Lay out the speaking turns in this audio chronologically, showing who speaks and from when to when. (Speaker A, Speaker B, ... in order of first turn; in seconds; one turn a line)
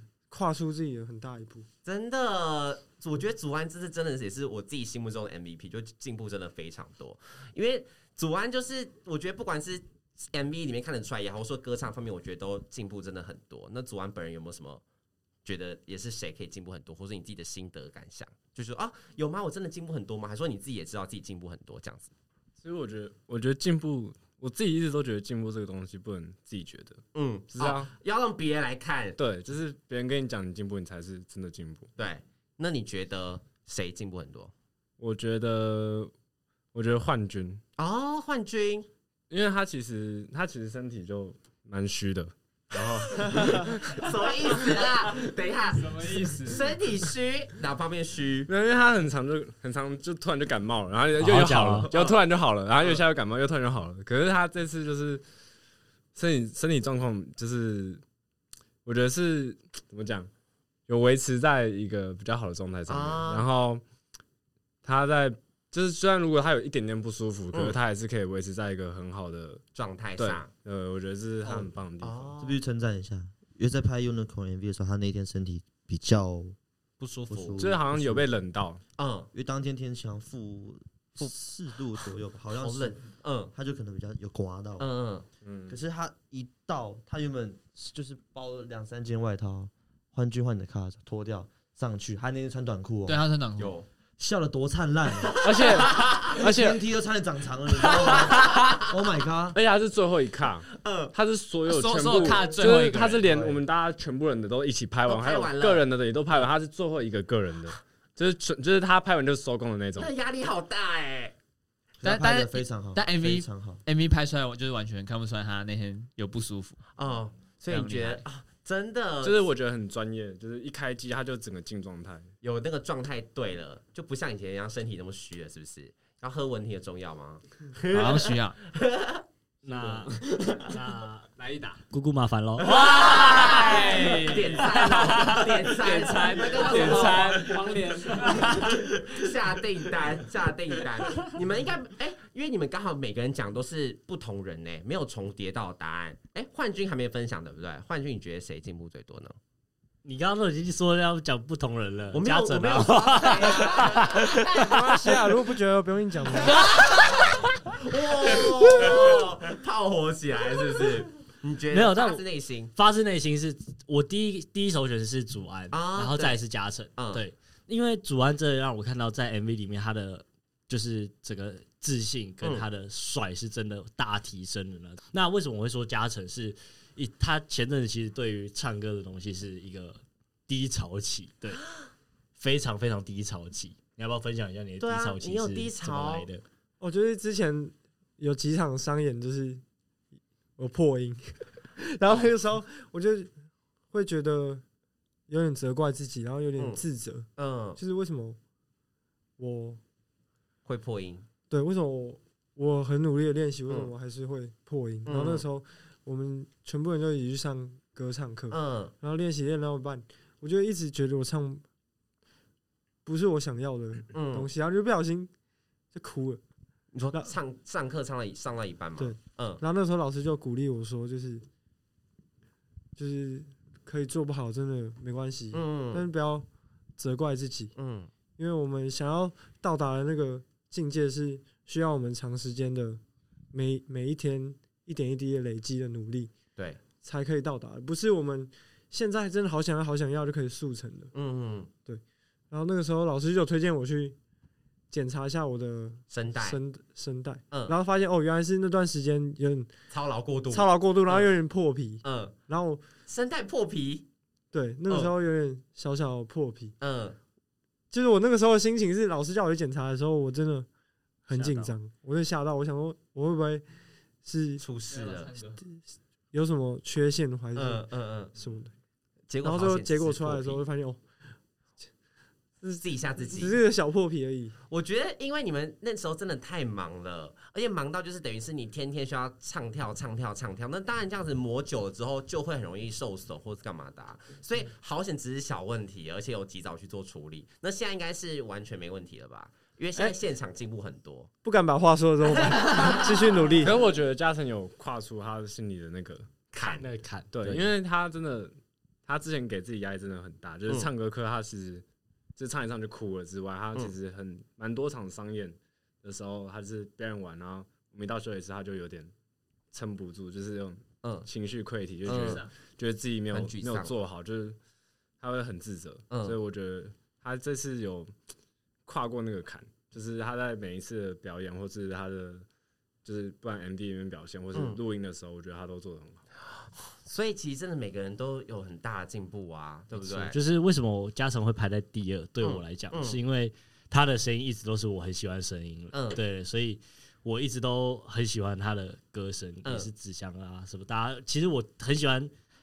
Speaker A: 0.3-1.7
Speaker B: 1.9-14.8
Speaker B: 15.4-22.1
Speaker C: 22.6-27.9
Speaker B: 27.1-29.2
Speaker C: 29.2-31.9
Speaker B: 32.0-34.5
Speaker C: 35.0-36.1
Speaker C: 36.7-37.6
Speaker B: 37.8-38.9
Speaker C: 39.3-44.8
Speaker B: 42.9-48.5
Speaker D: 45.9-46.6
Speaker C: 48.5-55.2
Speaker E: 51.2-51.9
Speaker B: 51.9-52.2
Speaker C: 56.1-58.0
Speaker C: 58.9-60.3
Speaker C: 60.9-63.8
Speaker B: 62.9-63.5
Speaker C: 64.8-69.6
Speaker B: 67.5-67.8
Speaker B: 69.8-70.5
Speaker C: 70.2-72.3
Speaker F: 71.4-71.7
Speaker B: 72.0-72.6
Speaker F: 72.4-76.6
Speaker B: 77.0-77.7
Speaker F: 77.3-78.3
Speaker C: 77.6-78.8
Speaker B: 79.0-79.3
Speaker F: 79.3-84.9
Speaker B: 82.6-83.5
Speaker B: 84.8-85.3
Speaker C: 85.4-85.8
Speaker F: 85.7-93.2
Speaker D: 93.1-93.8
Speaker B: 93.6-93.9
Speaker F: 94.2-99.6
Speaker C: 95.4-96.8
Speaker B: 95.4-96.4
Speaker B: 98.2-98.8
Speaker C: 99.5-110.1
Speaker B: 100.7-101.1
Speaker D: 101.7-103.2
Speaker F: 102.6-103.6
Speaker B: 105.0-105.9
Speaker B: 110.0-111.3
Speaker F: 112.0-113.8
Speaker D: 112.0-116.8
Speaker B: 117.0-119.5
Speaker D: 117.7-118.2
Speaker C: 119.2-122.3
Speaker B: 122.4-129.2
Speaker D: 127.9-128.6
Speaker E: 129.6-131.4
Speaker C: 129.7-130.7
Speaker C: 131.4-131.8
Speaker E: 131.9-135.5
Speaker B: 132.6-137.5
Speaker D: 132.8-134.2
Speaker C: 133.6-134.4
Speaker C: 135.8-138.6
Speaker D: 136.0-137.6
Speaker E: 136.4-137.4
Speaker B: 138.2-149.4
Speaker E: 150.0-155.2
Speaker B: 152.1-154.4
Speaker A: 154.5-156.7
Speaker B: 156.6-162.7
Speaker E: 161.7-162.2
Speaker E: 162.8-181.7
Speaker B: 165.7-166.4
Speaker B: 166.9-167.2
Speaker E: 182.4-186.4
Speaker B: 184.8-186.3
Speaker A: 186.8-189.6
Speaker A: 190.6-193.3
Speaker A: 193.9-194.6
Speaker A: 195.3-198.4
Speaker B: 196.6-196.8
Speaker B: 197.4-197.8
Speaker A: 199.4-199.8
Speaker B: 200.7-201.2
Speaker A: 201.5-211.6
Speaker B: 205.1-205.4
Speaker B: 208.5-208.9
Speaker A: 213.1-215.3
Speaker B: 214.1-214.5
Speaker A: 215.9-216.4
Speaker B: 216.9-219.6
Speaker A: 219.0-221.4
Speaker A: 223.0-226.5
Speaker B: 225.5-226.1
Speaker A: 227.0-227.7
Speaker B: 227.8-228.1
Speaker A: 228.4-233.0
Speaker A: 233.5-236.3
Speaker A: 237.0-241.1
Speaker B: 241.1-241.7
Speaker A: 241.9-244.2
Speaker A: 244.9-249.7
Speaker B: 246.1-246.6
Speaker B: 249.9-251.3
Speaker A: 250.5-252.8
Speaker B: 252.0-252.3
Speaker B: 253.1-254.1
Speaker A: 254.5-256.8
Speaker B: 256.8-257.2
Speaker A: 257.9-260.7
Speaker A: 261.3-263.6
Speaker E: 261.3-261.7
Speaker A: 264.2-264.6
Speaker B: 264.6-265.3
Speaker D: 264.9-265.6
Speaker A: 266.3-268.7
Speaker B: 267.6-268.3
Speaker B: 269.3-270.6
Speaker A: 269.4-271.0
Speaker A: 272.6-274.6
Speaker B: 272.8-273.6
Speaker B: 274.7-291.3
Speaker A: 291.4-293.8
Speaker B: 292.6-292.9
Speaker C: 293.6-296.3
Speaker B: 296.5-296.9
Speaker E: 296.6-297.7
Speaker C: 297.3-298.6
Speaker C: 299.1-301.8
Speaker C: 302.4-309.1
Speaker C: 309.7-314.6
Speaker B: 311.0-311.3
Speaker B: 312.0-312.5
Speaker B: 313.3-314.0
Speaker C: 315.2-318.1
Speaker B: 316.1-316.4
Speaker C: 318.9-322.4
Speaker C: 323.0-326.2
Speaker B: 324.5-324.8
Speaker B: 326.4-330.4
Speaker E: 330.0-342.3
Speaker B: 332.4-333.2
Speaker B: 335.9-336.2